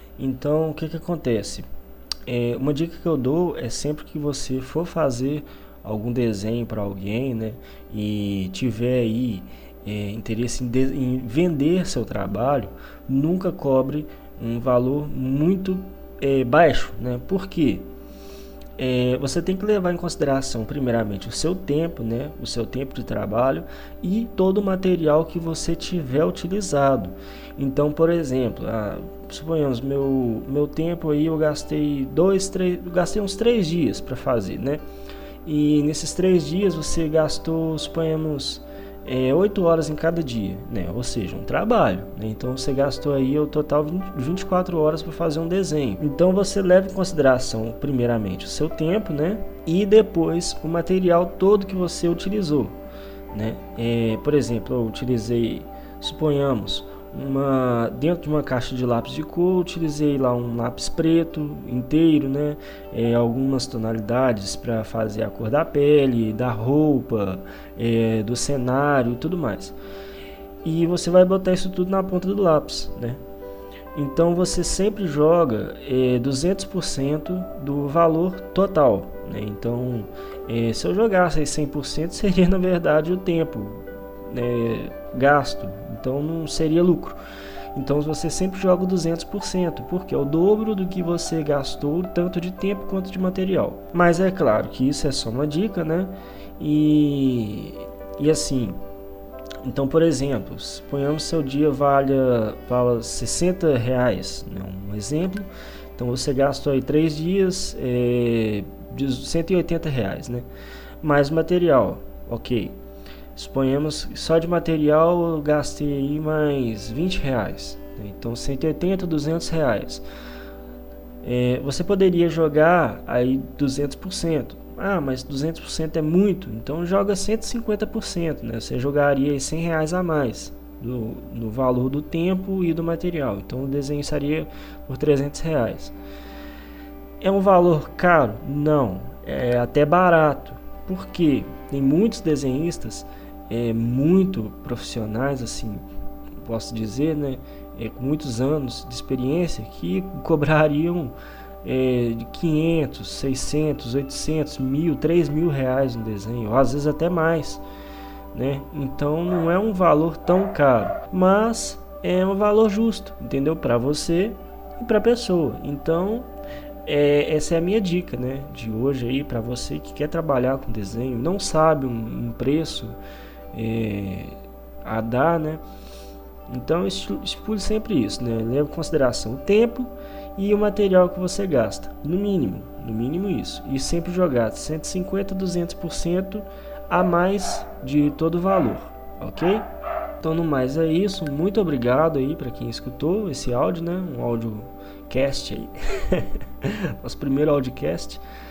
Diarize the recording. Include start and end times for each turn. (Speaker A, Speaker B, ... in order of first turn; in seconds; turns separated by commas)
Speaker A: 0.2-1.7, Speaker A: 2.3-17.9, Speaker A: 18.8-34.8, Speaker A: 35.5-52.8, Speaker A: 53.3-69.8, Speaker A: 70.6-73.2, Speaker A: 73.9-87.2, Speaker A: 87.8-98.8, Speaker A: 99.6-110.5, Speaker A: 111.0-112.8, Speaker A: 113.3-120.0, Speaker A: 121.2-135.9, Speaker A: 137.2-145.9, Speaker A: 146.4-157.6, Speaker A: 158.3-166.3, Speaker A: 166.8-173.0, Speaker A: 173.5-175.6, Speaker A: 176.5-189.7, Speaker A: 190.2-198.2